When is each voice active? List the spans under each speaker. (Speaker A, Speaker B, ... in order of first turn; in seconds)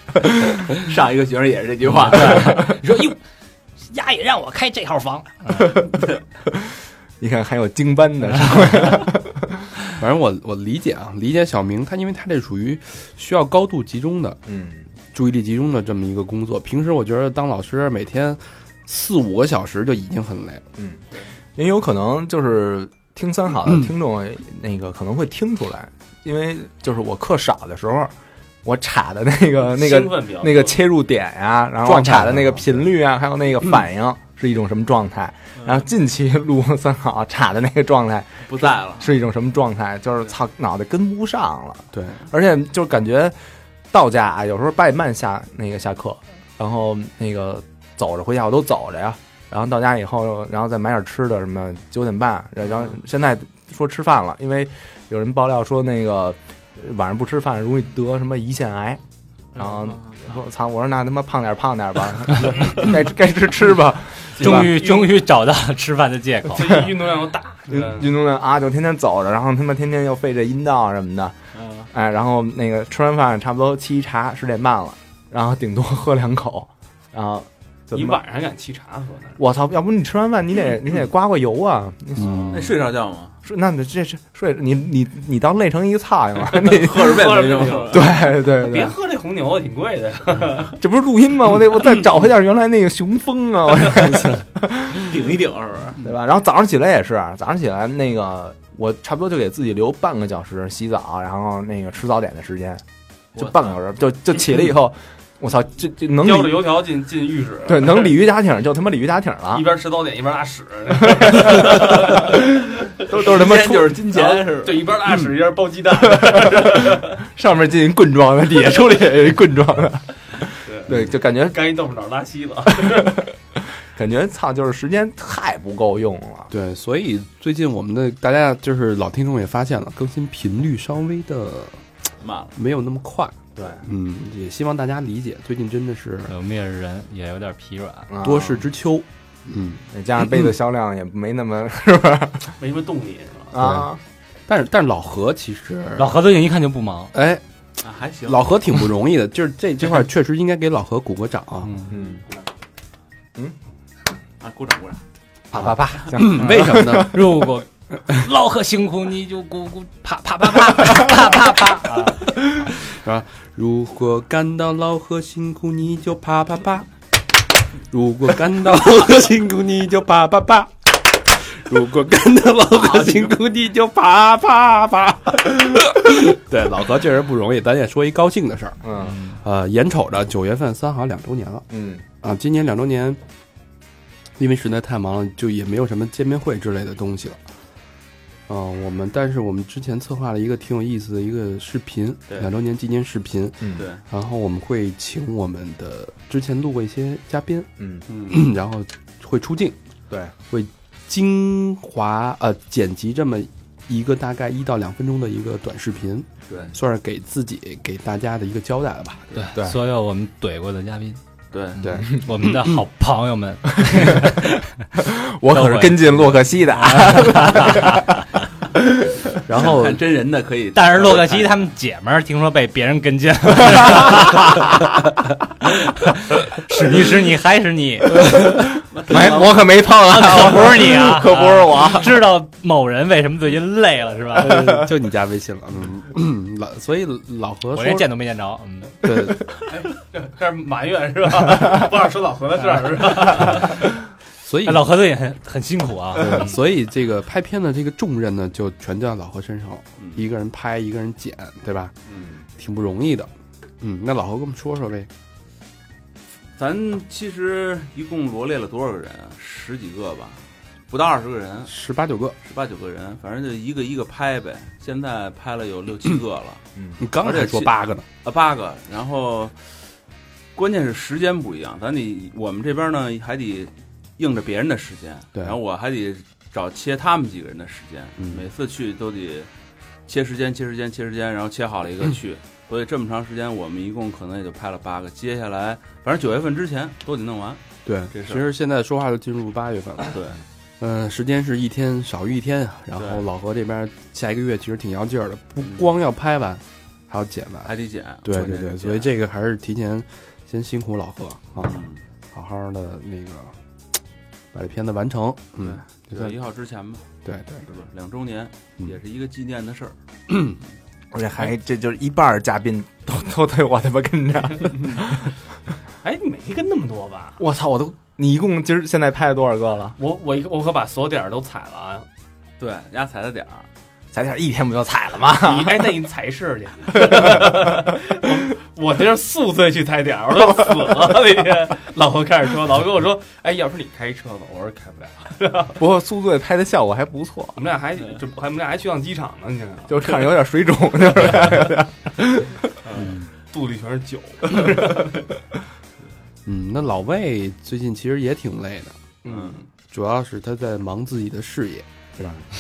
Speaker A: 0.2-0.5, 5.5-9.7, 14.5-14.9, 21.6-28.1, 28.6-43.4, 43.9-59.0, 59.5-64.8, 67.7-71.4, 71.9-78.2, 79.4-82.8, 83.4-89.0, 90.8-95.2, 96.0-102.8, 103.3-106.7, 107.7-109.7, 111.2-112.4, 113.0-114.4, 116.1-121.7, 122.8-126.5, 133.6-133.8, 138.1-138.7, 139.9-142.6, 143.5-144.0, 151.9-152.2, 155.5-157.4, 178.8-179.2, 181.7-182.0, 193.6-193.9, 197.8-198.1, 213.8-218.1, 218.8-219.3, 228.2-232.1, 234.4-234.7, 266.8-267.0, 311.1-315.3, 317.4-320.0, 324.1-326.0, 326.9-327.9, 335.8-337.6, 339.9-342.7
Speaker B: 0.8-2.6, 35.6-35.8, 38.5-39.1, 59.6-60.2, 71.5-71.9, 82.5-83.4, 86.5-88.1, 94.9-96.0, 103.4-103.8, 113.1-114.9, 132.2-132.6, 147.8-148.6, 154.4-155.0, 172.8-173.3, 193.8-194.0, 198.1-198.5, 206.5-206.8, 211.5-211.8, 219.5-221.7, 228.9-229.7, 252.1-252.4, 256.6-261.7, 262.4-266.6, 267.2-269.6, 270.6-279.5, 280.1-288.5, 290.1-290.4, 293.0-293.3, 295.6-295.9, 297.6-299.1, 301.6-302.0, 305.6-307.1, 307.7-310.0, 322.6-323.7, 342.9-343.1, 349.3-349.6
Speaker C: 1.9-3.2, 3.8-5.8, 64.4-66.8, 136.3-138.1, 146.0-147.1, 151.7-151.9, 156.2-162.3, 179.0-179.4, 209.4-211.2, 211.8-214.7, 215.5-218.2, 220.7-224.7, 225.9-228.4, 230.0-234.7, 237.7-239.1, 243.3-243.8, 244.7-246.6
Speaker D: 10.0-14.4, 15.1-20.6, 31.9-32.9, 41.9-42.2, 82.2-82.7, 126.5-131.8, 132.6-136.3, 138.2-139.8, 143.6-143.9, 144.5-146.2, 147.1-147.4, 148.2-151.8, 155.6-157.4, 162.7-166.9, 167.9-178.9, 179.4-181.7, 182.2-183.2, 184.4-187.4, 188.5-197.7, 198.3-199.8, 200.5-209.4, 211.8-212.7, 219.5-220.0, 234.3-238.1, 239.0-239.4, 244.4-244.9, 246.2-251.9, 252.6-253.3, 253.8-255.1, 261.7-262.4, 267.0-268.1, 278.2-278.5, 287.9-290.2, 290.8-297.7, 298.2-303.5, 304.5-306.4, 307.2-307.6, 310.3-310.6, 343.0-343.3, 346.5-348.9, 349.9-352.4
Speaker E: 29.6-30.8, 64.8-65.1, 66.5-68.1, 77.9-79.4, 87.0-90.8, 106.2-108.2, 109.5-112.5, 114.1-117.2, 120.7-123.3, 142.6-143.6, 239.8-243.9, 316.0-317.4, 320.0-322.1, 325.4-335.8, 337.6-340.3, 343.5-345.2, 349.2-349.6